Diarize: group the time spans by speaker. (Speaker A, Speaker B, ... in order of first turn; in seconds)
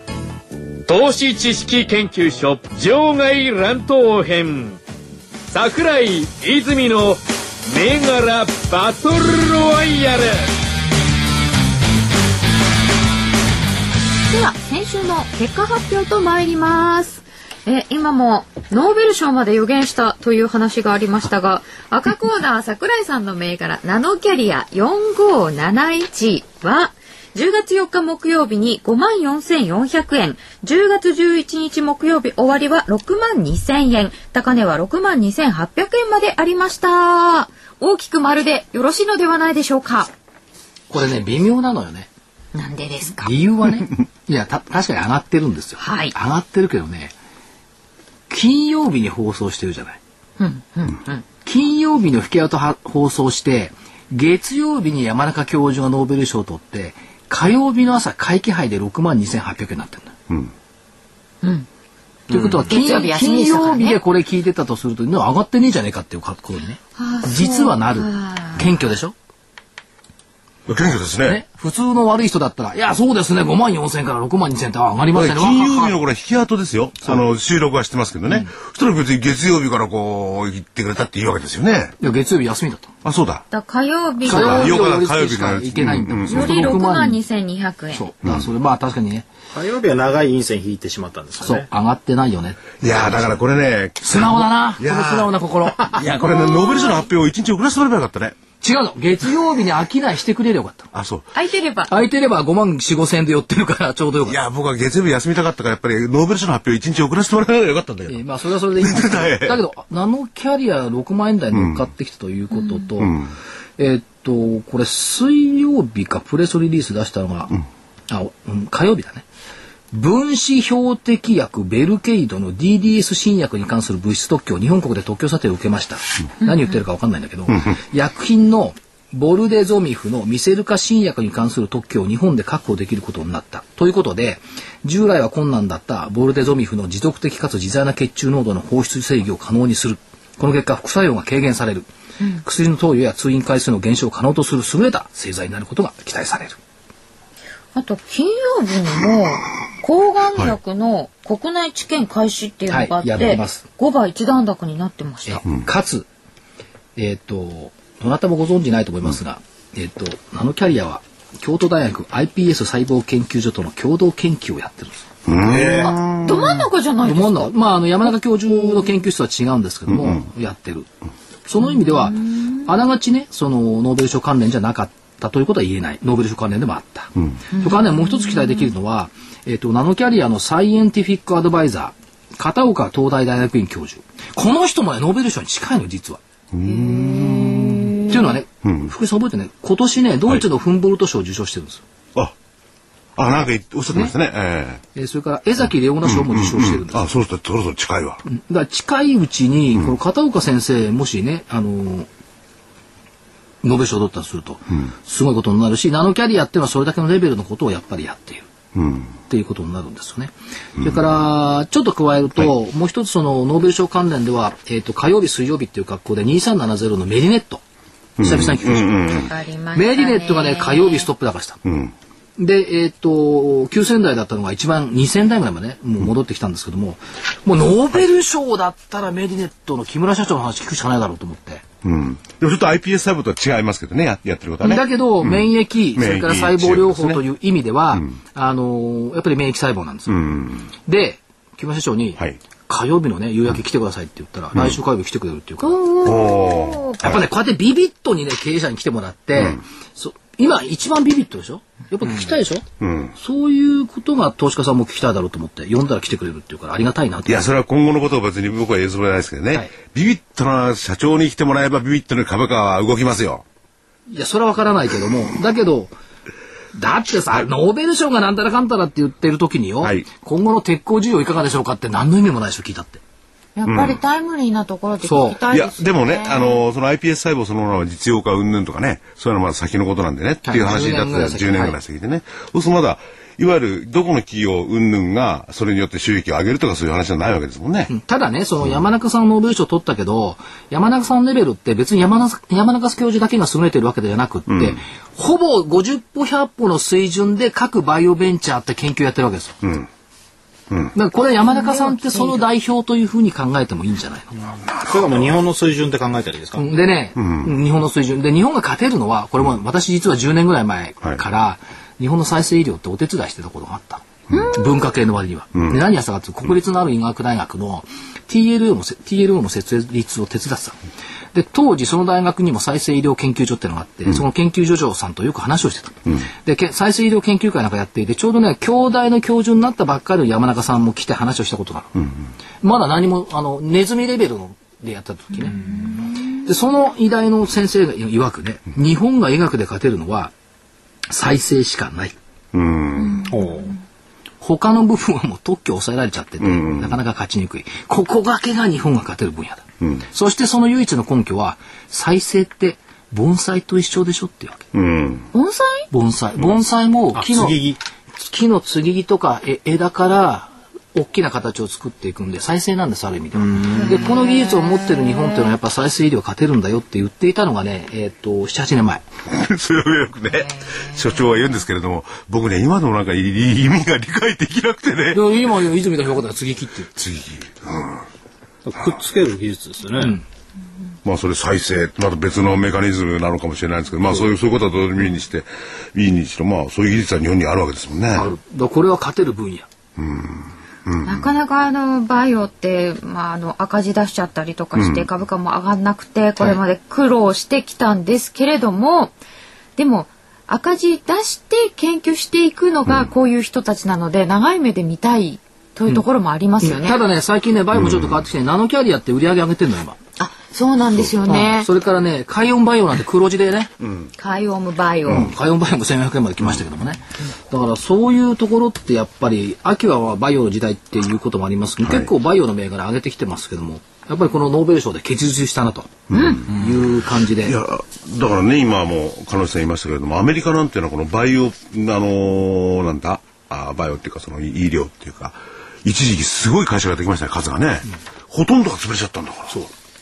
Speaker A: 0.9-4.8, 5.5-10.5
Speaker B: 14.3-40.1, 42.5-43.3, 45.8-46.1, 50.4-51.2, 62.7-64.0, 67.0-68.7, 83.5-84.8, 86.2-88.1, 96.1-97.1, 101.3-101.9, 147.7-155.4, 165.8-167.5, 171.6-172.7, 177.5-178.7, 186.7-188.3, 219.1-221.1, 245.6-247.0, 273.6-276.6, 301.4-302.4, 314.3-314.7, 335.5-336.1, 343.0-343.7, 355.3-355.9, 363.8-365.4, 370.3-371.2, 391.0-399.1, 399.8-407.0, 410.2-411.7, 414.2-415.3, 426.1-426.4
Speaker C: 40.9-42.1, 43.2-47.1, 48.3-50.0, 51.4-60.1, 62.3-69.1, 71.2-76.0, 82.0-82.9, 84.2-87.2, 87.9-89.2, 91.4-93.4, 94.0-95.9, 98.6-100.9, 101.9-104.4, 108.1-113.2, 113.8-117.6, 118.1-119.2, 119.9-141.9, 142.4-146.6, 152.7-153.6, 155.2-156.1, 156.9-165.1, 167.0-170.9, 171.5-186.2, 188.1-191.8, 194.9-197.0, 198.2-202.1, 203.6-208.5, 209.3-217.6, 218.2-219.1, 219.7-221.6, 222.4-231.6, 234.6-240.3, 240.8-245.8, 247.0-252.6, 253.2-257.5, 264.1-265.9, 266.7-273.0, 275.0-275.4, 280.4-281.8, 287.9-299.6, 300.9-304.4, 306.6-320.8, 321.3-331.9, 332.6-335.6, 336.3-340.3, 341.1-342.1, 344.4-354.6, 355.9-357.6, 358.2-369.0, 375.1-376.9, 380.0-380.2, 388.1-389.7, 406.6-410.0, 411.2-413.7, 415.1-427.6
Speaker D: 62.3-62.6, 89.5-91.7, 165.4-165.9, 304.8-306.6, 343.2-343.7, 357.1-357.8, 363.4-364.0, 378.6-380.2
Speaker E: 70.7-71.4, 75.1-82.0, 83.0-83.4, 84.2-86.6, 92.8-98.4, 100.9-101.2, 104.3-108.2, 108.8-109.6, 111.5-111.8, 113.0-113.3, 165.2-166.7, 169.9-170.2, 186.5-188.0, 188.6-188.9, 193.2-194.8, 196.0-198.2, 208.7-209.1, 218.2-219.3, 221.6-221.9, 231.8-237.2, 240.1-240.7, 246.0-247.2, 252.8-253.1, 257.2-263.4, 273.6-274.0, 275.5-287.9, 294.5-294.8, 299.6-299.9, 304.6-305.4, 307.2-307.5, 342.5-343.3, 346.4-347.0, 354.7-355.3, 369.2-375.2, 376.9-378.1, 381.0-388.3, 390.0-391.3, 394.8-395.1, 407.8-408.1, 413.8-414.1, 421.8-422.1, 426.1-426.8, 427.4-439.7